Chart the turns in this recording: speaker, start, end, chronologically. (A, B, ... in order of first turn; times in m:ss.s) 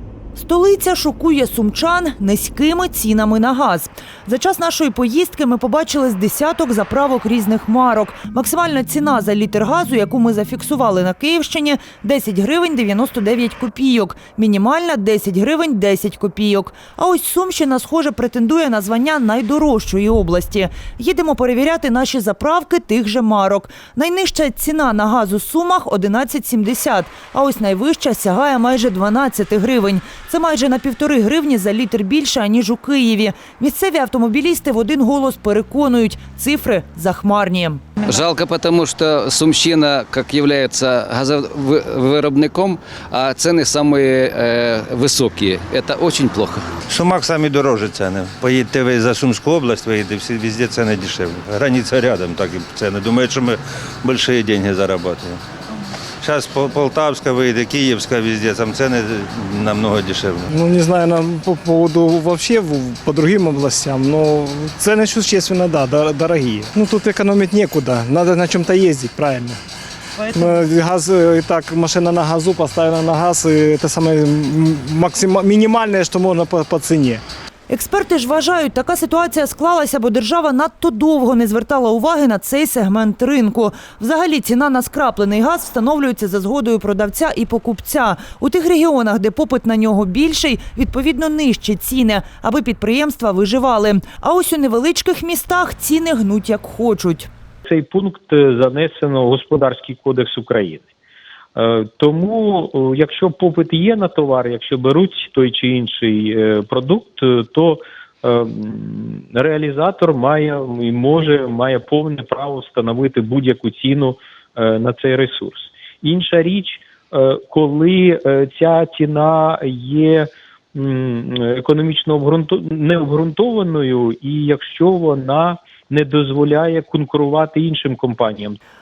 0:00.4-0:37.8 A
0:38.0-0:46.7 B
0:46.9-0:55.4 C
0:56.2-1:00.5 C
1:00.5-1:09.6 D
1:10.3-1:17.2 D
1:17.7-1:37.3 A
1:37.6-1:40.9 E
1:41.5-2:08.6 E